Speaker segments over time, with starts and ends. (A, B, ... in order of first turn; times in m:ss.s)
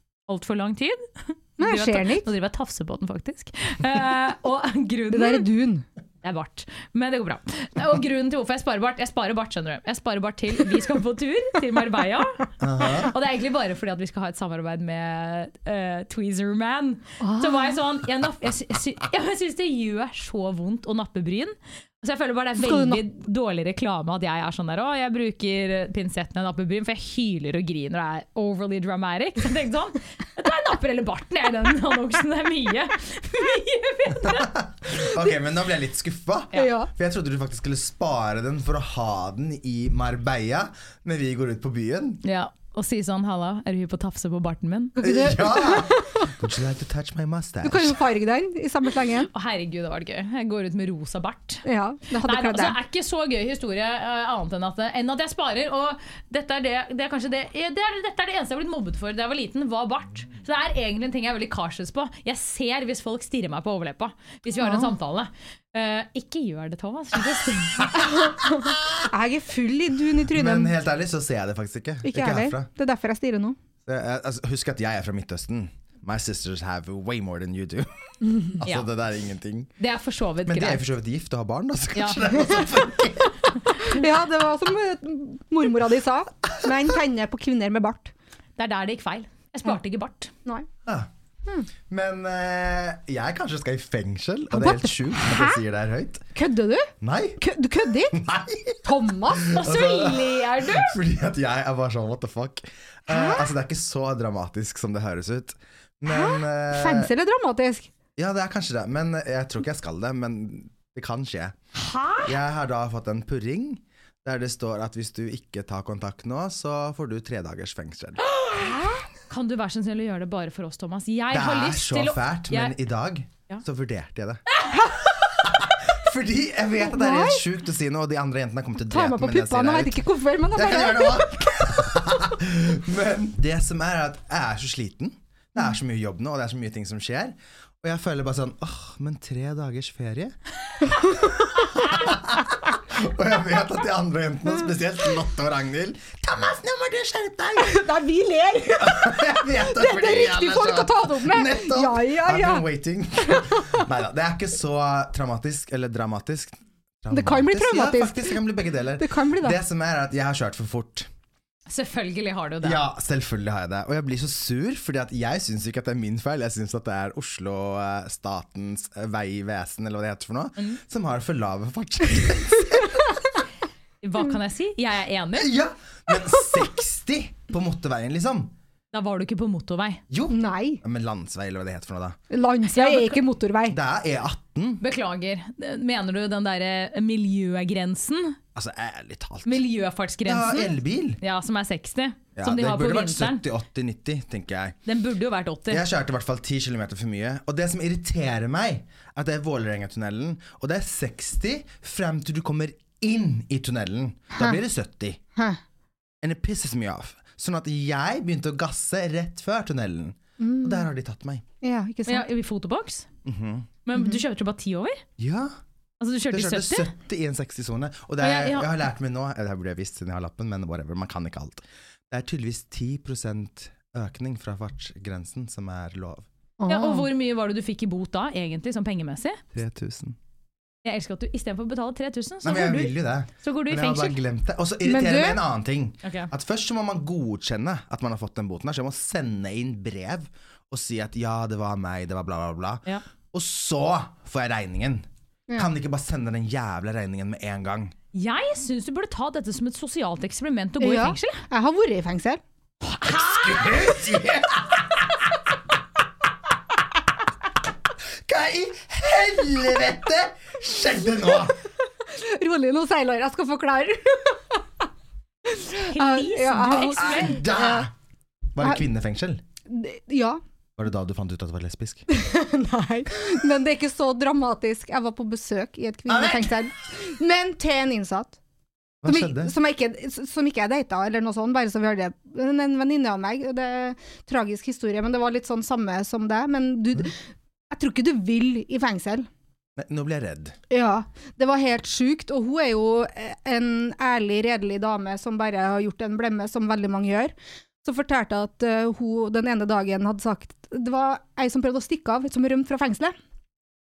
0:00.3-0:05.5 A
0:01.6-0:02.3 B
0:05.1-0:05.9 B
0:06.2-0:34.6 A
0:12.6-0:13.1 C
0:17.2-0:17.8 B
0:22.6-0:23.0 B
0:34.3-0:42.2 C
0:36.5-0:36.9 B
0:42.2-0:45.0 A
0:45.0-0:46.3 B
0:45.0-0:48.0 C
0:47.6-0:49.3 B
0:49.3-0:51.6 A
0:51.7-0:52.8 B
0:52.2-1:08.0 A
1:04.6-1:04.9 B
1:07.8-1:08.0 C
1:08.0-1:10.8 B
1:08.6-1:09.0 C
1:10.3-1:12.7 C
1:12.0-1:13.6 B
1:13.8-1:19.7 C
1:18.2-1:18.5 B
1:19.8-1:20.8 A
1:20.4-1:23.6 C
1:23.8-1:28.1 B
1:28.6-1:30.3 A
1:31.9-1:36.2 C
1:34.5-1:35.6 B
1:36.3-1:38.2 B
1:37.0-1:37.4 C
1:38.1-1:47.1 C
1:38.8-1:39.5 B
1:39.4-1:40.9 A
1:43.1-1:43.5 B
1:46.1-1:47.9 B
1:48.2-1:51.6 C
1:51.8-1:52.3 A
1:52.2-1:58.2 C
1:58.4-2:02.8 A
1:58.5-1:58.9 B
2:01.3-2:04.4 C
2:04.8-2:05.0 B
2:05.2-2:20.4 C
2:06.8-2:07.4 B
2:08.9-2:12.0 B
2:21.1-2:27.8 C
2:27.6-2:32.7 B
2:28.8-2:41.1 C
2:33.2-2:33.9 B
2:37.1-2:38.4 B
2:39.0-2:39.6 B
2:41.7-2:42.8 A
2:42.6-2:53.2 C
2:54.0-2:55.5 A
2:55.4-2:58.5 C
2:58.9-3:00.0 A
3:00.1-3:02.2 C
3:00.3-3:00.8 B
3:02.3-3:03.8 B
3:02.7-3:03.2 A
3:03.7-3:04.8 C
3:04.8-3:08.4 A
3:08.6-3:09.6 C
3:09.4-3:13.4 A
3:10.2-3:11.2 C
3:12.4-3:14.8 C
3:14.9-3:15.8 A
3:15.7-3:25.2 C
3:26.2-3:31.4 C
3:30.4-3:30.9 B
3:31.6-3:32.3 B
3:32.1-3:33.1 A
3:33.2-3:33.7 C
3:33.9-3:35.0 A
3:35.2-3:35.6 C
3:36.0-3:36.9 A
3:36.3-3:46.3 C
3:38.2-3:38.7 A
3:46.6-3:47.1 B
3:46.7-3:49.4 A
3:49.5-3:50.2 C
3:50.8-3:54.2 A
3:52.4-4:07.9 C
3:54.8-3:55.4 B
3:56.0-3:56.3 A
4:08.1-4:11.4 A
4:10.8-4:12.4 B
4:12.8-4:13.7 A
4:13.0-4:15.2 C
4:18.3-4:21.6 C
4:22.0-4:24.6 B
4:25.4-4:27.9 B
4:25.7-4:27.4 A
4:27.0-4:27.9 C
4:28.6-4:29.4 C
4:29.7-4:30.4 B
4:30.8-4:32.1 C
4:32.1-4:38.4 B
4:36.1-4:36.6 C
4:39.0-4:39.5 C
4:39.0-4:47.2 B
4:47.7-4:49.3 B
4:49.8-4:50.6 C
4:50.7-5:03.2 B